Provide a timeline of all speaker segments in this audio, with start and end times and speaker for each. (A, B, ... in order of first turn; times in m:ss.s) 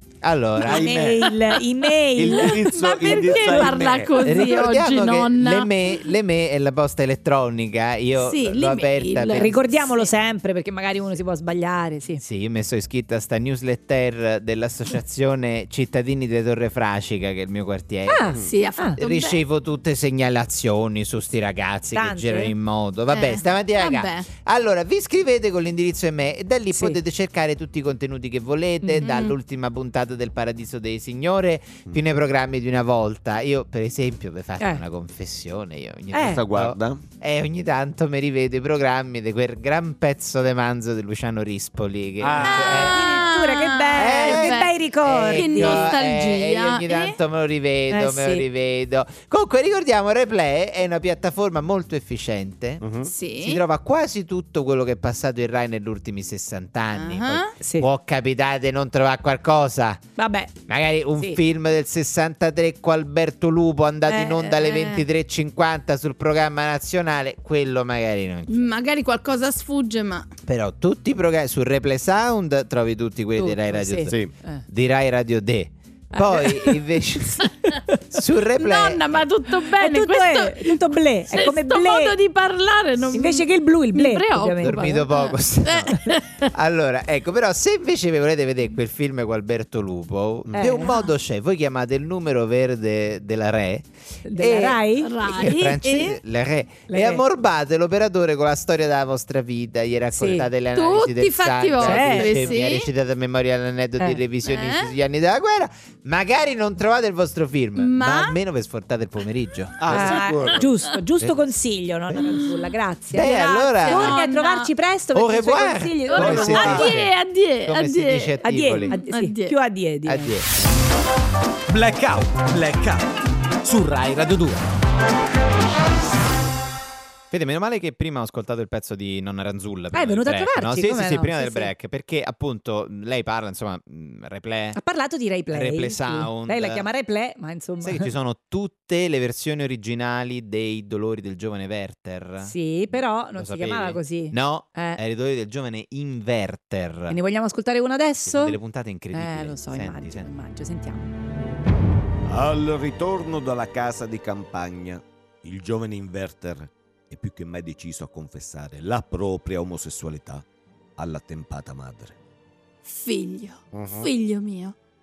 0:00.2-0:01.0 A
0:00.6-0:01.3 B
0:00.6-0:03.8 C
0:02.2-0:04.2 B
0:02.4-0:05.7 D
0:04.2-0:09.6 A
0:08.2-0:10.1 D
0:09.3-0:12.2 C
0:12.2-0:43.3 A
0:18.1-0:19.0 C
0:18.4-0:19.4 D
0:21.9-0:22.5 C
0:23.1-0:24.3 D
0:26.7-0:27.0 C
0:28.8-0:29.1 C
0:29.0-0:29.3 D
0:36.1-0:36.4 C
0:36.2-0:37.0 B
0:42.2-0:42.9 B
0:42.4-0:44.7 D
0:42.7-0:45.9 C
0:44.0-1:00.0 A
0:45.3-0:47.2 D
0:47.9-0:48.4 C
0:52.8-0:53.1 B
0:53.0-0:53.6 D
0:56.9-0:57.5 D
0:57.6-0:57.9 C
1:00.2-1:00.5 C
1:00.7-1:08.6 A
1:04.1-1:04.5 C
1:04.6-1:05.0 D
1:08.5-1:10.3 D
1:10.5-1:17.6 A
1:13.4-1:14.6 C
1:16.1-1:16.8 C
1:17.4-1:18.0 C
1:18.1-1:19.3 A
1:18.6-1:26.5 D
1:19.8-1:22.2 C
1:23.1-1:25.1 C
1:24.6-1:50.6 A
1:30.4-1:30.7 B
1:30.5-1:31.0 C
1:34.2-1:35.2 C
1:35.0-1:36.2 D
1:36.9-1:37.2 C
1:40.1-1:40.5 C
1:40.7-1:42.9 D
1:41.8-1:42.6 C
1:44.4-1:44.9 D
1:47.8-1:48.4 D
1:49.8-1:50.6 B
1:49.8-1:57.0 C
1:52.2-1:52.6 D
1:53.1-1:54.2 A
1:53.2-1:54.7 D
1:55.1-1:59.0 A
1:56.1-1:59.6 D
1:56.2-1:56.9 B
1:58.4-2:00.4 C
2:00.1-2:00.5 A
2:01.7-2:03.1 E
2:03.6-2:04.7 E
2:07.3-2:14.8 A
2:09.9-2:11.7 C
2:14.8-2:18.1 C
2:15.5-2:16.9 A
2:17.8-2:27.2 A
2:22.4-2:25.0 C
2:27.1-2:28.6 C
2:28.3-2:30.3 A
2:29.1-2:31.1 C
2:32.3-2:40.4 B
2:41.0-2:42.2 B
2:42.8-2:44.8 D
2:43.7-2:44.1 B